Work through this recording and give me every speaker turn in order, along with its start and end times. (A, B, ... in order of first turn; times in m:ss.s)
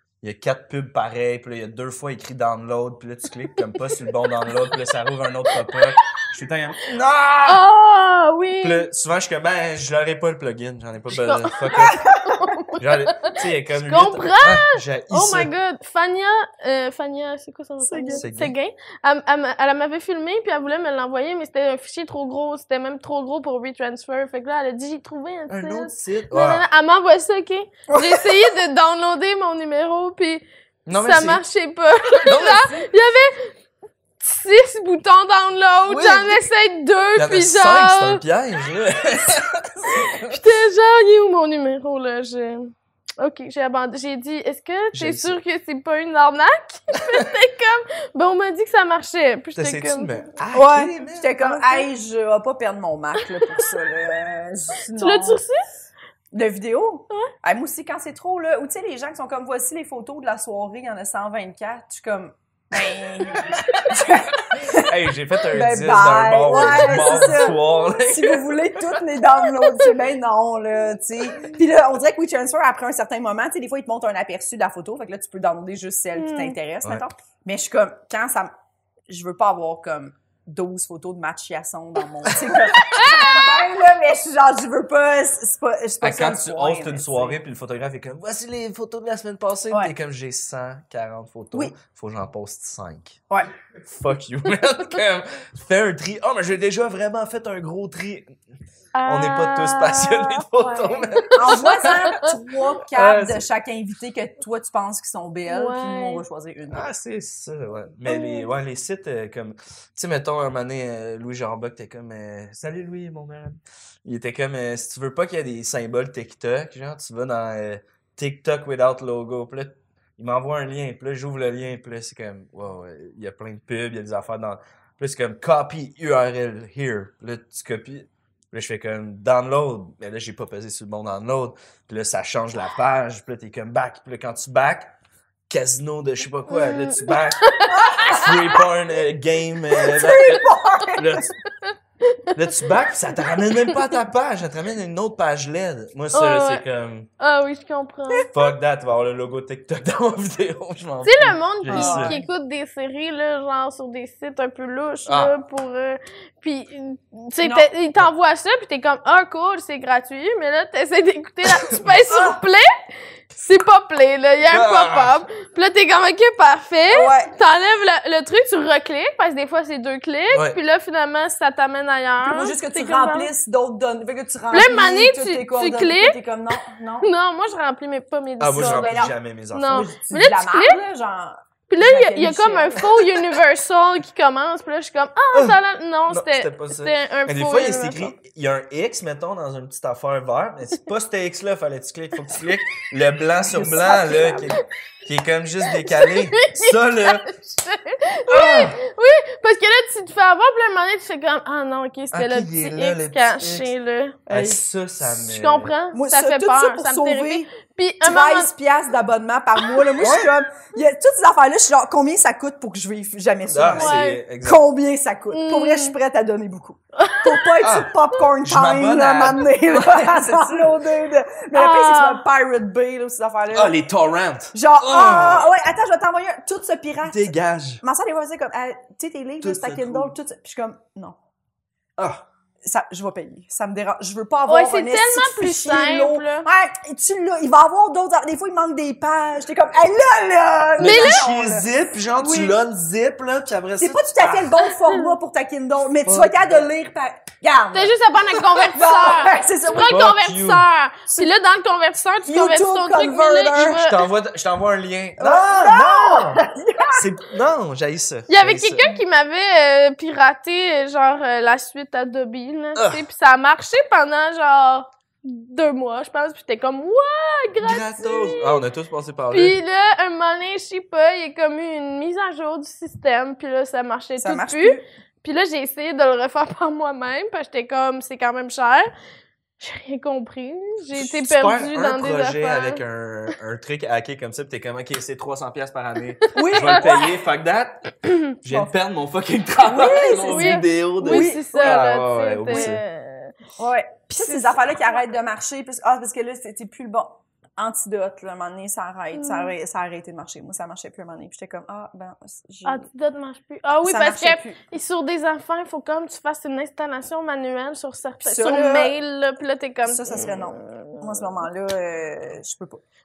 0:00.2-0:07.6 A
0:05.7-0:06.2 B
0:07.4-0:08.9 B
0:08.6-0:15.5 A
0:11.1-0:33.5 B
0:12.1-0:12.4 C
0:17.8-0:18.2 C
0:18.2-0:18.5 A
0:25.5-0:26.6 A
0:27.9-0:28.5 C
0:30.8-0:31.4 A
0:32.2-0:32.8 A
0:34.2-0:38.2 B
0:35.9-0:36.4 A
0:37.2-0:40.4 A
0:40.0-0:50.3 B
0:44.9-0:45.4 A
0:49.5-0:51.4 A
0:50.5-0:55.4 C
0:51.4-0:51.8 B
0:54.9-0:55.6 B
0:56.3-1:04.9 C
1:04.5-1:08.7 A
1:05.5-1:18.5 C
1:06.5-1:07.6 B
1:16.2-1:16.5 B
1:19.1-1:27.4 C
1:26.0-1:33.2 A
1:33.8-1:38.4 A
1:38.9-1:42.3 B
1:39.0-1:42.2 A
1:41.3-1:46.9 C
1:42.9-1:43.5 A
1:45.5-1:46.2 B
1:46.7-2:14.9 A
1:48.1-1:48.5 B
2:15.5-2:21.4 A
2:16.5-2:18.3 B
2:17.7-2:18.6 C
2:19.7-2:21.2 C
2:22.0-2:22.3 B
2:22.3-2:27.1 A
2:26.1-2:26.6 B
2:27.2-2:28.4 B
2:28.3-2:32.1 A
2:31.0-2:42.6 B
2:31.7-2:32.3 C
2:35.0-2:35.3 A
2:37.4-2:37.7 C
2:41.4-2:41.9 A
2:42.0-2:42.4 C
2:43.3-2:53.3 B
2:44.4-2:45.2 A
2:46.9-2:47.3 C
2:50.3-2:50.6 A
2:52.2-2:57.1 C
2:54.5-2:56.2 B
2:57.0-3:00.8 B
2:58.4-2:59.9 A
2:58.5-2:59.1 C
2:59.7-3:03.1 C
3:01.7-3:08.1 B
3:05.3-3:17.3 A
3:13.4-3:14.6 C
3:15.8-3:24.2 B
3:18.3-3:18.8 A
3:22.1-3:23.7 A
3:24.3-3:24.6 C
3:24.3-3:25.7 A
3:25.2-3:28.5 B
3:25.9-3:27.5 C
3:28.0-3:43.8 C
3:30.0-3:30.3 A
3:33.5-3:34.6 A
3:33.7-3:34.2 B
3:35.3-3:35.9 B
3:37.0-3:37.5 B
3:37.6-3:40.8 A
3:41.5-3:42.2 B
3:43.5-3:45.5 A
3:44.5-3:47.3 C
3:47.0-3:47.8 A
3:47.8-3:51.2 C
3:49.4-3:50.1 A
3:52.0-3:52.2 A
3:52.6-4:02.6 C
3:54.5-3:56.4 B
4:00.8-4:04.5 A
4:00.8-4:01.3 B
4:03.8-4:10.0 C
4:04.8-4:05.1 B
4:06.0-4:06.7 A
4:07.7-4:14.0 B
4:09.9-4:10.7 A
4:12.2-4:13.8 C
4:13.5-4:18.8 A
4:15.2-4:17.0 C
4:18.3-4:28.6 B
4:22.8-4:23.0 A
4:27.6-4:29.6 A
4:29.3-4:38.9 B
4:34.2-4:34.8 C
4:39.6-4:42.8 B
4:40.9-4:52.8 A
4:46.2-4:46.9 B
4:46.3-4:47.1 C
4:49.6-4:51.9 C
4:49.9-4:53.4 B
4:52.5-4:52.8 C
4:53.6-5:02.9 C
4:54.1-4:55.0 B
4:59.1-4:59.5 B
5:02.6-5:11.2 B
5:03.8-5:04.6 C
5:08.2-5:08.9 C
5:09.8-5:12.8 C